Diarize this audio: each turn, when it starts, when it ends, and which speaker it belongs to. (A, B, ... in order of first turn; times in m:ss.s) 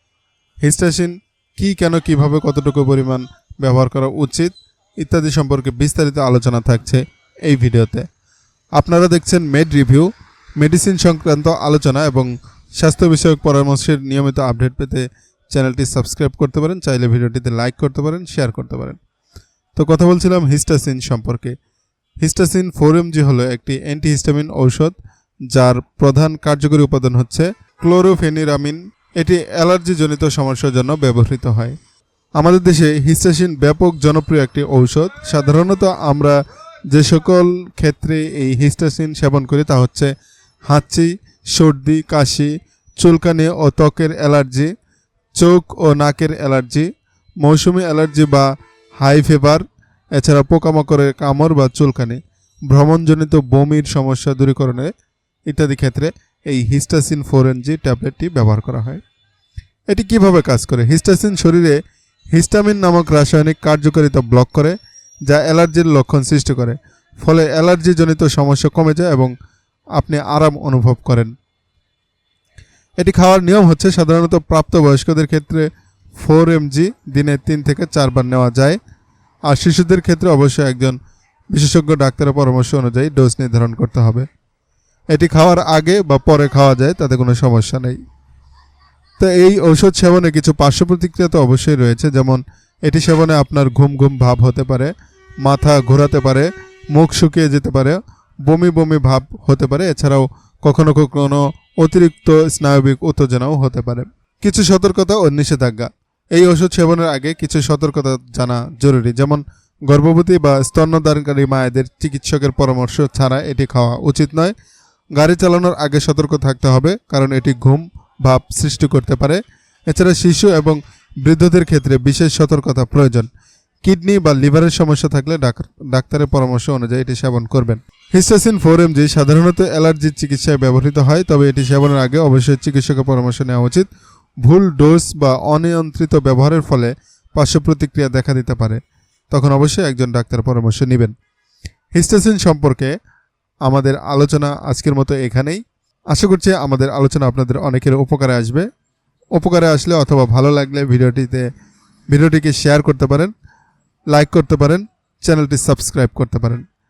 0:00.6-0:08.0 A
0:08.8-0:19.0 A
0:19.7-0:21.5 A
0:22.2-0:24.9 A
0:25.5-0:31.7 A
0:32.4-0:36.4 A
0:36.9-0:40.1 A
0:40.7-0:44.7 A
0:45.4-0:46.9 A
0:47.4-0:48.5 A
0:49.0-0:49.6 A
0:50.2-0:54.9 A
0:55.5-0:59.0 A
0:59.9-1:01.8 A
1:02.3-1:04.8 A
1:05.3-1:09.3 A
1:10.0-1:11.3 A
1:13.0-1:18.8 A
1:19.5-1:21.0 A
1:21.5-1:24.3 A
1:25.1-1:28.0 A
1:29.2-1:54.5 A
1:55.2-2:03.3 A
2:03.8-2:13.8 A
2:14.4-2:18.8 A
2:19.3-2:21.1 A
2:21.9-2:22.9 A
2:23.6-2:28.6 A
2:29.3-2:31.5 A
2:32.1-2:33.3 A
2:34.1-2:36.6 A